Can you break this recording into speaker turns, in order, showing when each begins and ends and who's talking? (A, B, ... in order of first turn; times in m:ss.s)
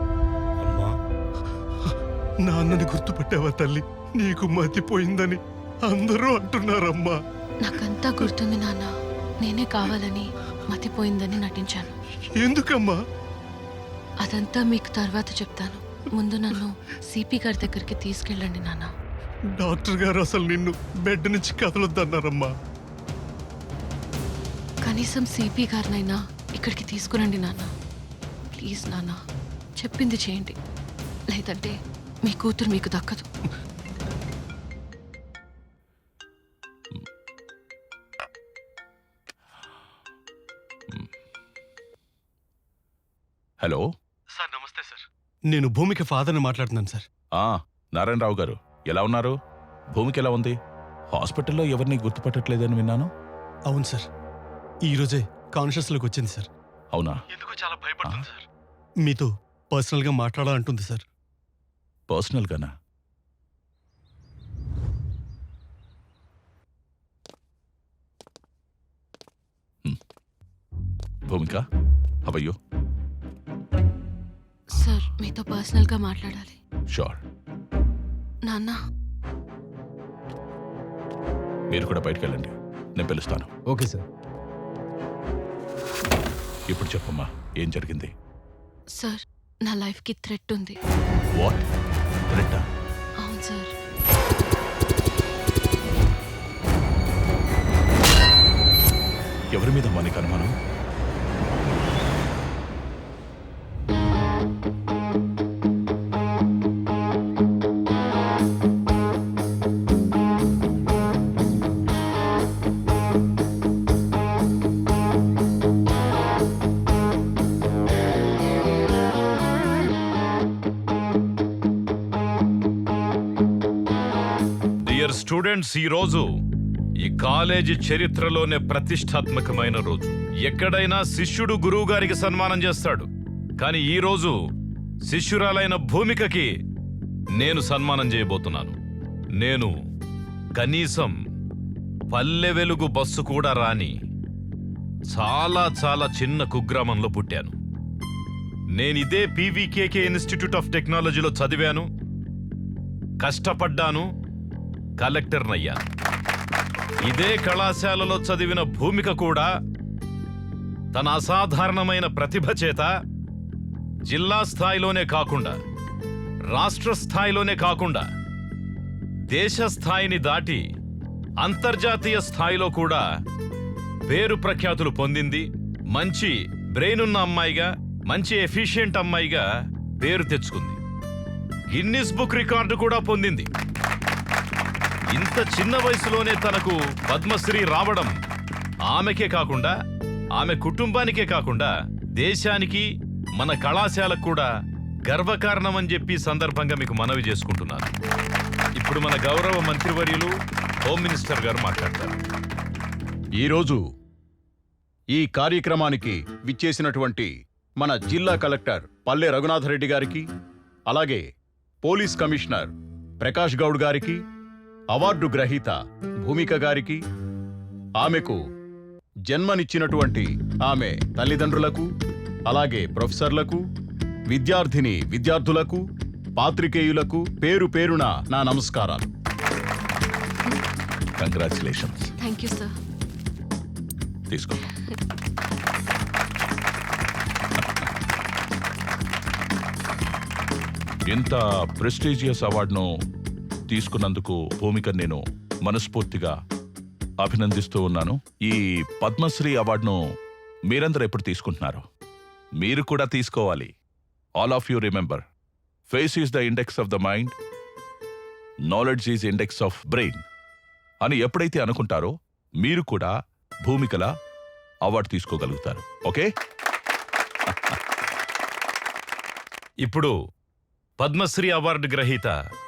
0:02.5-0:05.4 A
0:05.9-0:07.2 A
0:07.8-0:11.9 B
0:12.4-0:12.9 A
0:14.2-0:18.9 B
0:19.6-0:22.5 A
0:24.8-0:27.7 B
0:28.5-0:29.2 B
0:29.8-0:30.6 B
0:31.3-0:33.3 B
0:44.6-0:44.9 A
0:45.5-0:47.0 A
0:47.4-0:49.3 C
0:49.9-0:50.6 C
0:51.1-0:53.1 C
0:53.7-0:54.0 A
0:54.9-0:56.4 A
0:56.9-0:57.2 C
0:57.4-0:58.3 A
0:59.8-1:01.0 A
1:02.1-1:02.7 C
1:11.3-1:11.6 C
1:12.3-1:12.6 C
1:14.8-1:16.6 B
1:16.9-1:17.2 C
1:18.4-1:18.8 B
1:21.7-1:23.5 C
1:26.7-1:28.1 C
1:29.0-1:30.8 B
1:32.3-1:32.6 C
1:33.2-1:33.7 B
1:39.5-1:40.5 C
2:04.9-2:06.3 D
2:07.0-2:13.1 D
2:13.6-2:14.3 D
2:15.1-2:16.5 D
2:17.4-2:18.7 D
2:19.4-2:19.7 D
2:20.6-2:21.1 D
2:22.1-2:23.9 D
2:25.1-2:27.6 D
2:28.8-2:31.9 D
2:33.2-2:34.1 D
2:35.0-2:35.9 D
2:37.1-2:39.5 D
2:40.9-2:42.9 D
2:44.1-2:45.6 D
2:46.5-2:48.0 D
2:49.3-2:50.6 D
2:51.4-2:53.0 D
2:54.1-2:59.4 D
3:00.0-3:00.8 D
3:01.7-3:03.5 D
3:05.1-3:08.1 D
3:08.9-3:09.7 D
3:10.4-3:12.9 D
3:13.4-3:14.5 D
3:15.1-3:17.9 D
3:18.8-3:20.3 D
3:20.9-3:22.2 D
3:23.4-3:23.8 E
3:25.2-3:30.2 E
3:30.9-3:31.2 E
3:31.8-3:34.2 E
3:34.9-3:35.7 E
3:36.3-3:37.0 E
3:38.0-3:38.4 E
3:39.3-3:41.9 E
3:42.5-3:43.6 E
3:44.3-3:45.8 E
3:46.4-3:49.1 E
3:51.2-3:52.0 C
3:52.2-3:52.7 B
3:54.3-3:54.6 C
4:01.1-4:02.8 C
4:03.7-4:06.3 C
4:07.2-4:10.0 C
4:10.7-4:11.8 C
4:12.6-4:13.7 C
4:14.4-4:15.2 C
4:15.9-4:17.3 C
4:18.7-4:20.2 C
4:21.0-4:23.1 C
4:23.6-4:24.1 C
4:24.8-4:26.3 C
4:27.5-4:27.8 C
4:29.8-4:30.1 D
4:31.0-4:32.3 D